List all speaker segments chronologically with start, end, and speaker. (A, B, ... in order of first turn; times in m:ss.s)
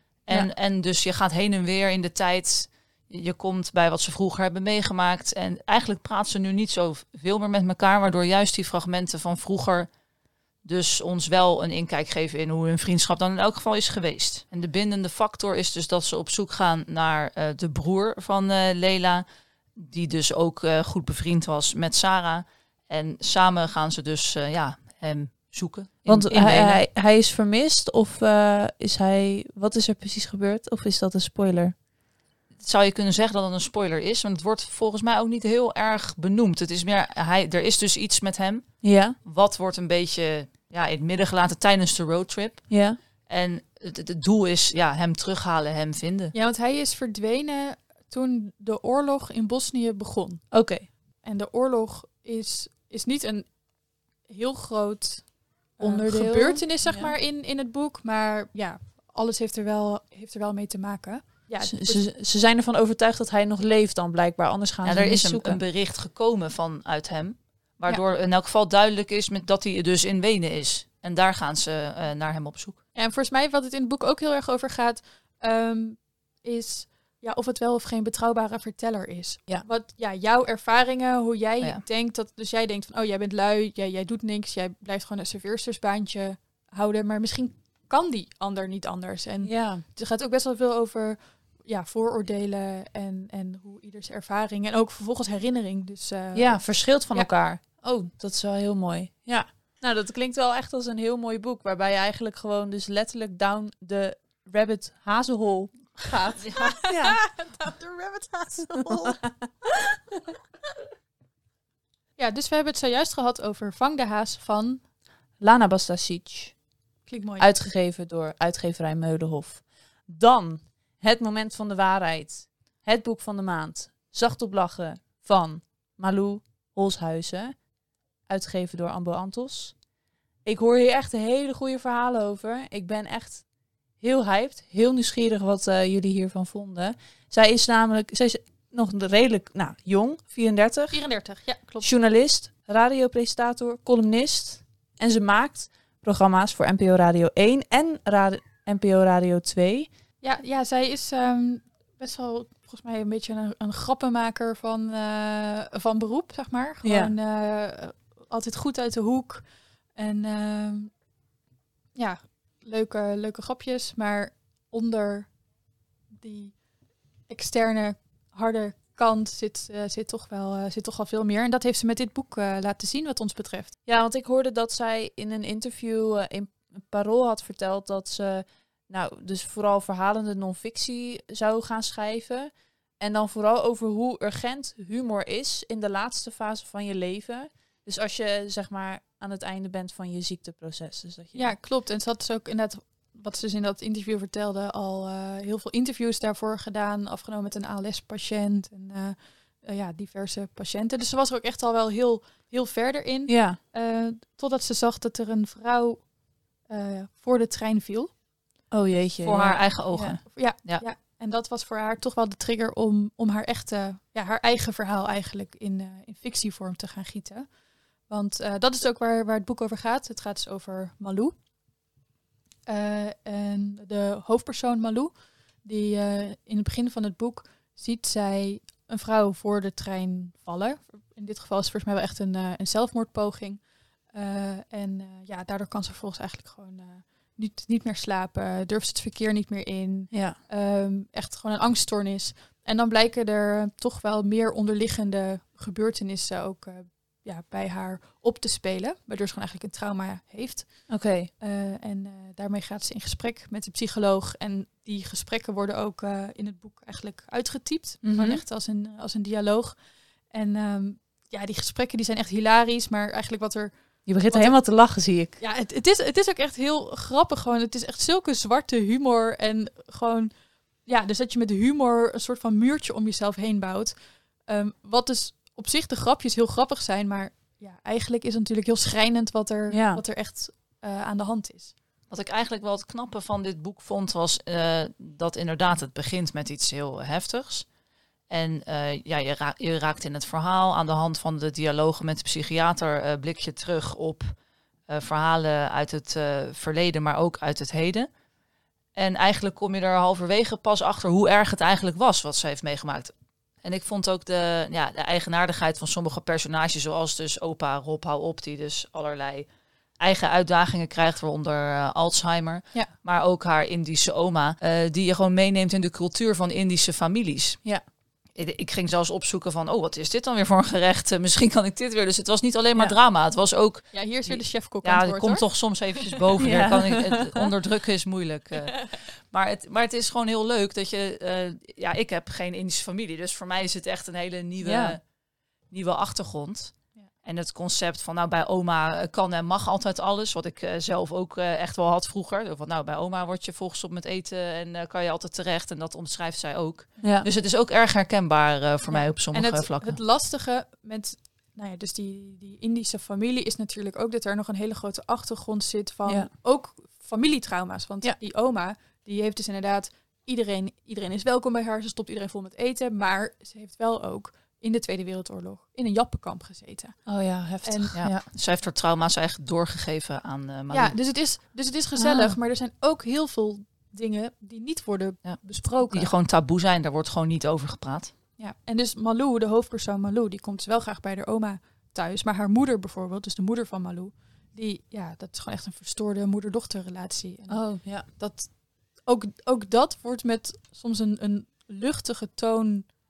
0:00.3-0:09.9 A
0:10.6-0:19.2 A
0:19.8-0:26.8 A
0:26.1-0:31.7 B
0:32.6-0:46.3 A
0:38.8-0:39.2 B
0:42.7-0:43.0 B
0:46.3-1:02.0 C
0:50.5-0:50.9 B
0:55.8-0:57.2 B
1:01.6-1:05.6 B
1:04.8-1:12.8 A
1:13.0-1:37.3 C
1:29.4-1:29.8 B
1:36.4-1:46.4 B
1:46.1-1:49.5 C
1:46.3-1:46.8 A
1:46.9-1:47.2 B
1:52.2-1:54.8 C
1:55.4-1:56.6 B
1:57.1-1:57.5 C
1:57.4-2:07.6 B
2:08.3-2:09.8 B
2:10.4-2:13.4 B
2:14.0-2:21.0 B
2:20.9-2:21.9 C
2:21.8-2:29.9 B
2:30.2-2:40.9 C
2:36.8-2:37.1 B
2:42.0-2:45.4 C
2:46.2-2:46.6 C
2:47.2-2:53.7 C
2:53.9-3:11.6 B
3:11.3-3:26.1 C
3:23.3-3:23.6 B
3:26.6-3:28.1 C
3:28.7-3:30.2 B
3:29.2-3:30.8 A
3:30.2-3:37.5 C
3:38.0-3:41.3 C
3:42.7-4:24.6 C
4:00.1-4:00.4 B
4:10.9-4:11.3 B
4:18.0-4:18.4 B
4:24.1-4:25.4 B
4:25.4-4:41.7 C
4:39.7-4:40.0 B
4:42.1-4:47.7 A
4:48.3-4:54.3 A
4:54.9-4:58.1 A
4:59.0-5:09.5 A
5:10.0-5:17.6 A
5:18.4-5:35.0 A
5:23.9-5:26.1 C
5:26.4-5:27.5 B
5:28.6-5:28.9 C
5:34.6-5:35.0 B
5:35.7-5:50.0 A
5:47.0-5:47.3 B
5:48.9-6:07.1 C
6:07.1-6:08.2 B
6:07.6-6:08.0 C
6:08.0-6:11.0 A
6:10.7-6:16.1 C
6:12.0-6:12.4 B
6:15.2-6:18.1 A
6:18.4-6:32.9 C
6:27.5-6:28.1 B